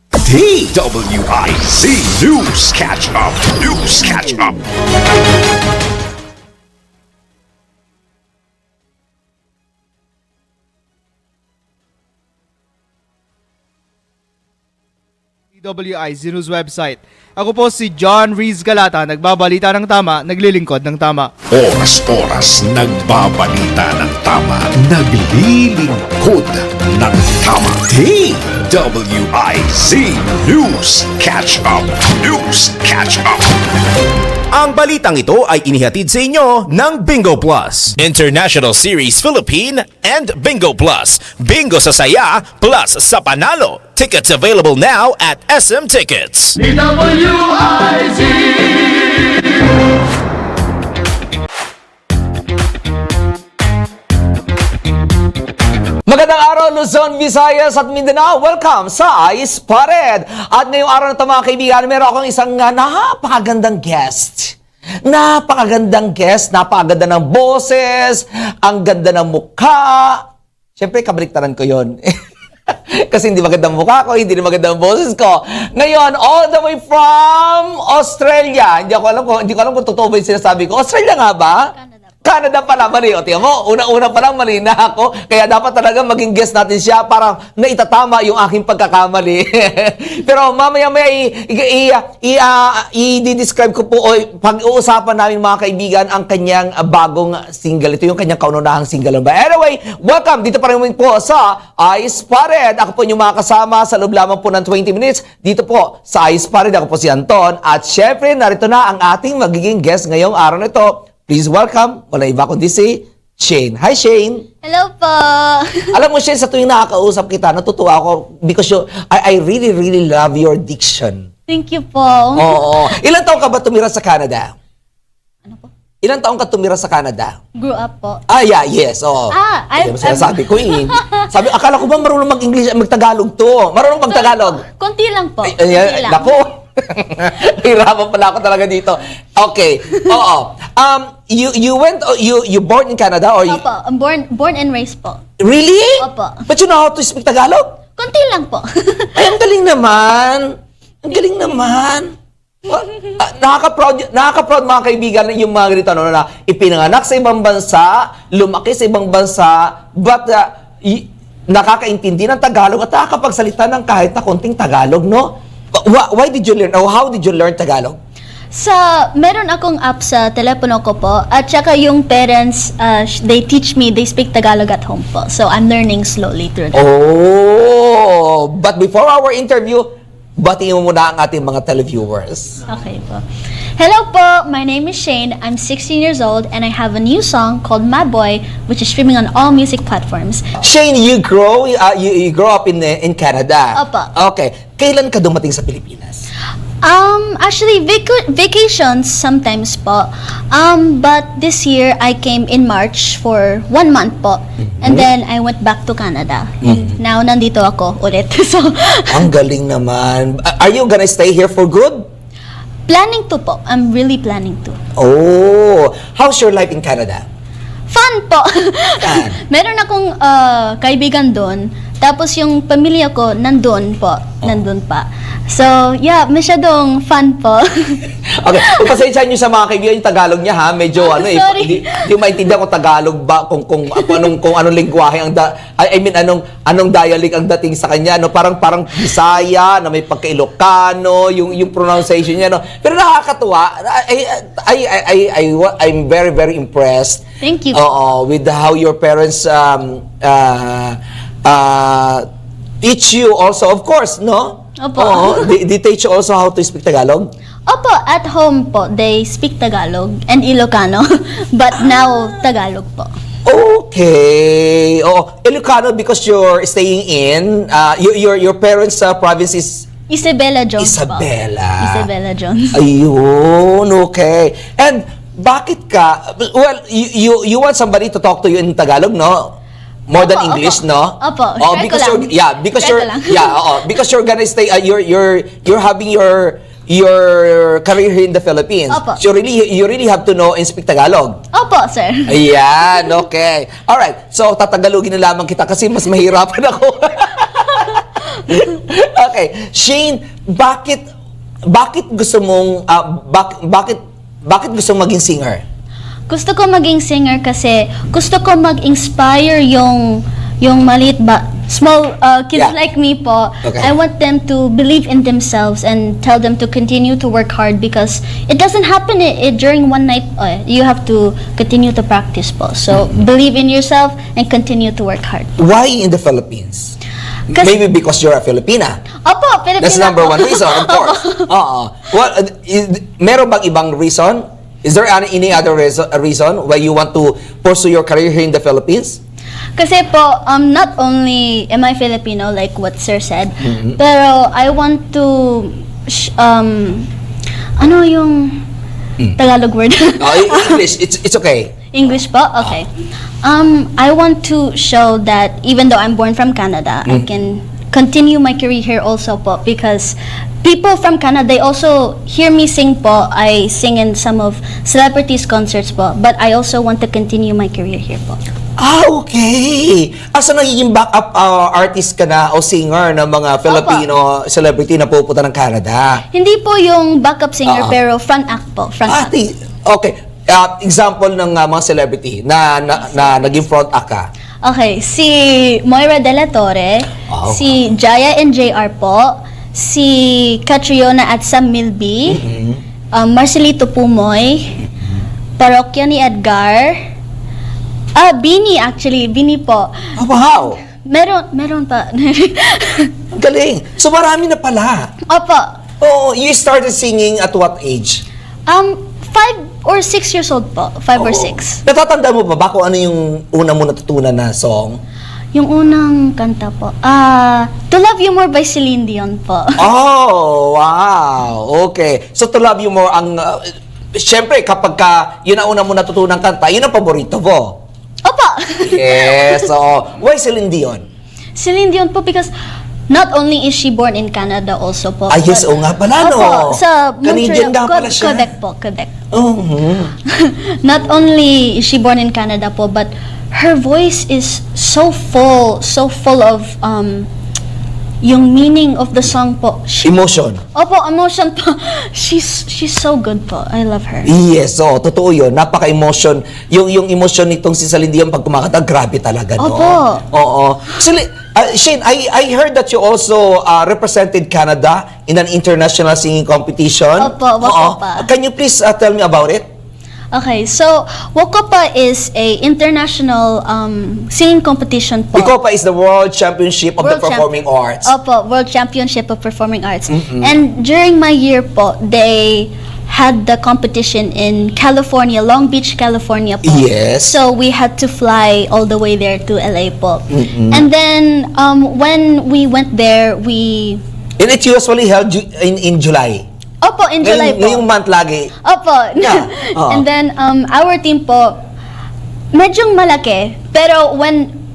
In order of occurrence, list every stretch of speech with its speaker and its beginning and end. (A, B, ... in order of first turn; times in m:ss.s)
0:00.2-0:04.6 A
0:15.6-0:21.3 B
0:21.5-0:33.5 A
0:34.5-0:47.3 C
0:56.0-1:04.5 D
1:05.0-1:10.2 D
1:10.8-1:12.1 D
1:13.0-1:21.7 D
1:21.7-1:22.2 E
1:22.2-1:54.4 D
1:54.6-1:55.9 E
1:55.9-2:01.3 D
2:01.5-2:02.7 E
2:02.4-2:04.5 D
2:06.0-2:07.4 D
2:07.6-2:08.2 E
2:08.3-2:14.6 D
2:09.3-2:11.3 E
2:14.1-2:16.3 E
2:15.4-2:23.6 D
2:23.5-2:25.2 E
2:25.4-2:27.8 D
2:26.0-2:26.4 E
2:28.0-2:29.3 E
2:29.2-2:32.1 D
2:32.7-2:48.0 D
2:48.5-2:56.8 E
2:56.7-3:02.6 D
3:02.7-3:03.2 E
3:03.8-3:10.5 E
3:10.6-3:16.2 D
3:13.7-3:14.1 E
3:16.8-3:29.3 E
3:24.8-3:25.1 D
3:26.6-3:27.0 D
3:29.1-3:32.1 D
3:32.9-3:34.8 E
3:35.0-3:37.3 D
3:37.9-3:48.0 E
3:39.0-3:39.4 D
3:48.4-4:07.2 D
3:51.0-3:52.0 E
4:07.4-4:07.8 E
4:07.7-4:12.3 D
4:12.8-4:17.3 D
4:14.8-4:15.5 E
4:17.7-4:23.1 E
4:23.4-4:29.9 D
4:30.1-4:31.3 E
4:30.8-4:32.1 D
4:31.8-4:32.8 E
4:32.7-4:39.5 D
4:40.1-4:51.4 D
4:40.2-4:43.6 E
4:48.9-4:49.2 E
4:51.5-4:52.4 E
4:52.3-5:01.0 D
5:01.7-5:05.6 D
5:06.3-5:25.6 E
5:13.6-5:13.9 D
5:25.6-5:26.9 D
5:27.5-5:29.0 D
5:29.2-5:31.5 E
5:29.8-5:39.2 D
5:39.8-5:47.1 E
5:43.6-5:44.0 D
5:47.8-5:48.6 E
5:49.4-5:50.8 E
5:50.2-5:51.7 D
5:51.9-5:52.9 E
5:53.4-6:08.4 E
6:08.8-6:16.2 D
6:13.7-6:14.1 E
6:16.3-6:19.3 E
6:17.7-6:18.0 D
6:19.1-6:24.3 D
6:23.1-6:23.5 E
6:24.6-6:32.4 E
6:27.3-6:27.6 D
6:32.3-6:32.8 D
6:33.1-6:34.8 E
6:35.6-6:37.0 E
6:38.1-6:40.1 E
6:40.2-6:40.8 D
6:41.0-6:43.1 E
6:43.3-6:45.1 D
6:45.3-6:45.8 E
6:46.0-6:48.2 D
6:48.7-6:51.8 E
6:51.2-6:55.0 D
6:55.5-6:59.8 E
6:59.8-7:07.8 D
7:08.2-7:09.7 E
7:08.8-7:11.0 D
7:11.6-7:12.5 E
7:13.1-7:15.7 E
7:15.3-7:18.5 D
7:16.2-7:19.1 E
7:19.3-7:20.1 D
7:20.3-7:27.3 E
7:28.2-7:30.1 E
7:30.0-7:30.6 D
7:30.7-7:34.3 E
7:34.3-7:49.7 D
7:39.6-7:40.2 E
7:47.2-7:48.3 E
7:50.3-7:55.5 E
7:55.4-7:58.1 D
7:57.0-7:57.5 E
7:58.0-8:14.0 E
8:00.1-8:00.6 D
8:06.6-8:07.4 D
8:10.3-8:10.8 D
8:14.4-8:16.4 D
8:16.8-8:17.8 E
8:17.2-8:18.5 D
8:18.6-8:21.6 E
8:19.2-8:20.0 D
8:22.5-8:24.5 E